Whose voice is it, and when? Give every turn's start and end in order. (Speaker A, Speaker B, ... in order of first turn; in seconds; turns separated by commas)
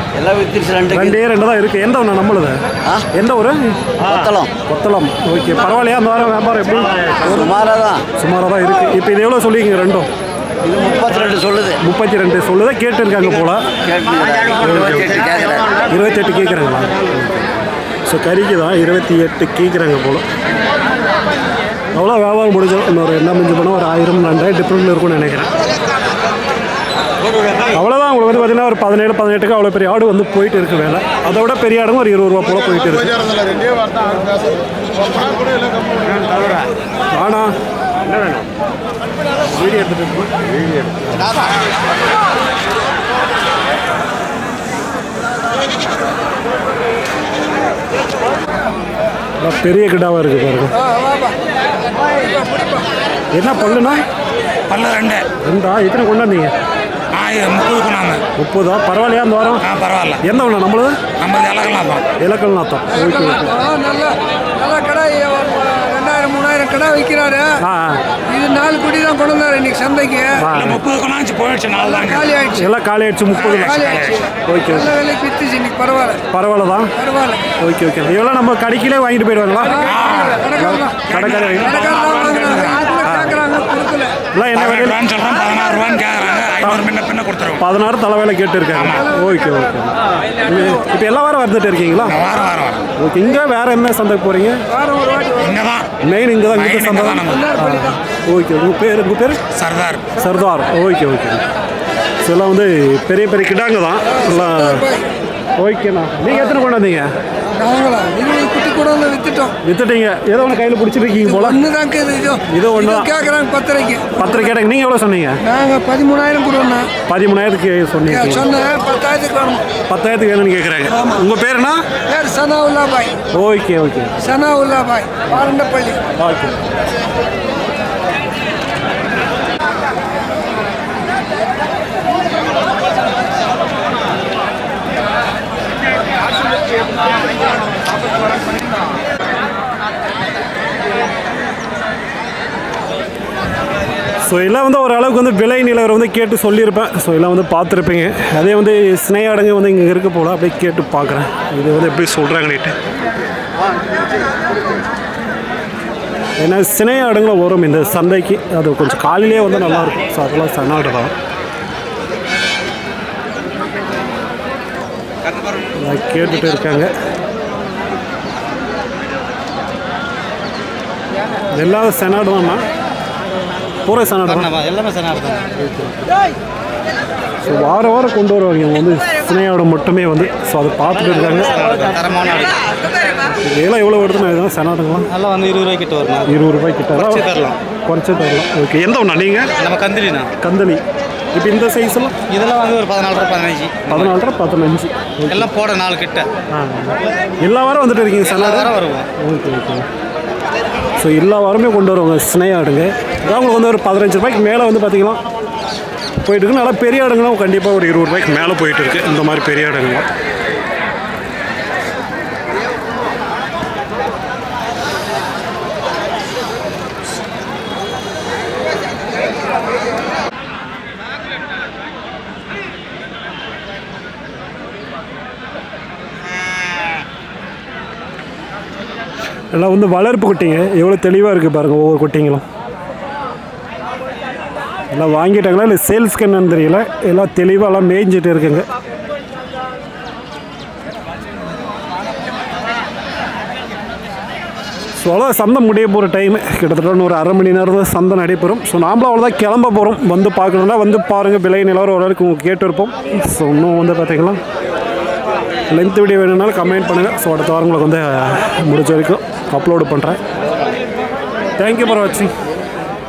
Speaker A: 0.1-1.2, Speaker B: 0.9-2.6, Speaker B: 3.1-3.8, Speaker A: 4.0-4.5, Speaker B: 4.7-7.5, Speaker A: 7.2-8.0, Speaker B: 8.2-10.1, Speaker A: 10.6-11.8, Speaker B: 11.8-13.6, Speaker A: 13.8-15.7, Speaker B: 14.6-15.2, Speaker B: 15.9-17.5, Speaker B: 18.1-20.2, Speaker B: 21.9-25.5, Speaker B: 27.7-33.3, Speaker B: 37.1-37.5, Speaker B: 38.1-38.5, Speaker B: 39.5-41.3, Speaker B: 49.4-50.7, Speaker C: 50.9-51.3, Speaker C: 52.2-52.8, Speaker B: 53.3-54.0, Speaker D: 54.7-55.2, Speaker B: 55.4-56.5, Speaker D: 57.1-58.2, Speaker B: 58.4-59.6, Speaker D: 59.6-60.2, Speaker B: 60.2-61.0, Speaker D: 61.2-62.1, Speaker B: 62.2-63.5, Speaker C: 62.9-67.5, Speaker B: 67.6-68.0, Speaker C: 68.3-70.4, Speaker B: 70.4-70.8, Speaker D: 70.5-72.4, Speaker C: 71.9-72.7, Speaker B: 72.5-73.8, Speaker D: 73.3-74.2, Speaker C: 73.7-74.0, Speaker B: 74.5-75.0, Speaker C: 74.7-76.2, Speaker B: 76.3-76.9, Speaker C: 77.0-77.4, Speaker B: 77.6-79.9, Speaker C: 79.8-84.1, Speaker D: 79.8-80.5, Speaker B: 80.5-81.8, Speaker D: 81.1-82.8, Speaker B: 83.0-83.4, Speaker B: 84.3-85.0, Speaker D: 84.5-87.6, Speaker B: 87.6-92.2, Speaker D: 88.7-89.0, Speaker D: 92.0-92.9, Speaker B: 93.0-94.6, Speaker C: 94.8-95.5, Speaker D: 95.4-95.9, Speaker B: 96.0-99.4, Speaker D: 96.5-97.5, Speaker C: 97.3-98.0, Speaker D: 99.5-100.0, Speaker B: 100.2-101.4, Speaker B: 102.2-104.8, Speaker C: 104.2-105.0, Speaker B: 105.6-107.1, Speaker C: 107.6-109.5, Speaker B: 109.6-111.6, Speaker C: 111.2-114.5, Speaker B: 112.5-113.1, Speaker B: 114.2-115.4, Speaker C: 115.5-116.9, Speaker B: 117.1-118.5, Speaker C: 118.1-119.6, Speaker B: 119.9-121.8, Speaker C: 122.1-123.1, Speaker B: 123.3-124.1, Speaker C: 124.2-126.0, Speaker B: 126.2-126.6, Speaker B: 144.3-152.8, Speaker B: 156.4-161.1, Speaker E: 165.3-165.5, Speaker B: 165.8-166.9, Speaker B: 171.5-172.6, Speaker B: 173.9-174.5, Speaker E: 174.2-175.5, Speaker B: 175.6-176.0, Speaker B: 177.4-181.5, Speaker E: 181.3-182.6, Speaker B: 183.4-185.1, Speaker E: 185.1-186.3, Speaker B: 186.3-187.2, Speaker E: 186.9-187.6, Speaker B: 187.9-189.5, Speaker E: 189.6-190.3, Speaker B: 190.4-190.8, Speaker B: 191.3-192.2, Speaker E: 192.3-194.2, Speaker B: 193.9-195.5, Speaker E: 195.3-196.3, Speaker B: 196.5-199.9, Speaker E: 198.2-199.1, Speaker B: 201.0-205.2, Speaker B: 206.2-210.1, Speaker B: 229.5-232.4, Speaker B: 234.9-238.7, Speaker B: 245.0-254.4, Speaker B: 255.7-260.2, Speaker B: 261.6-262.3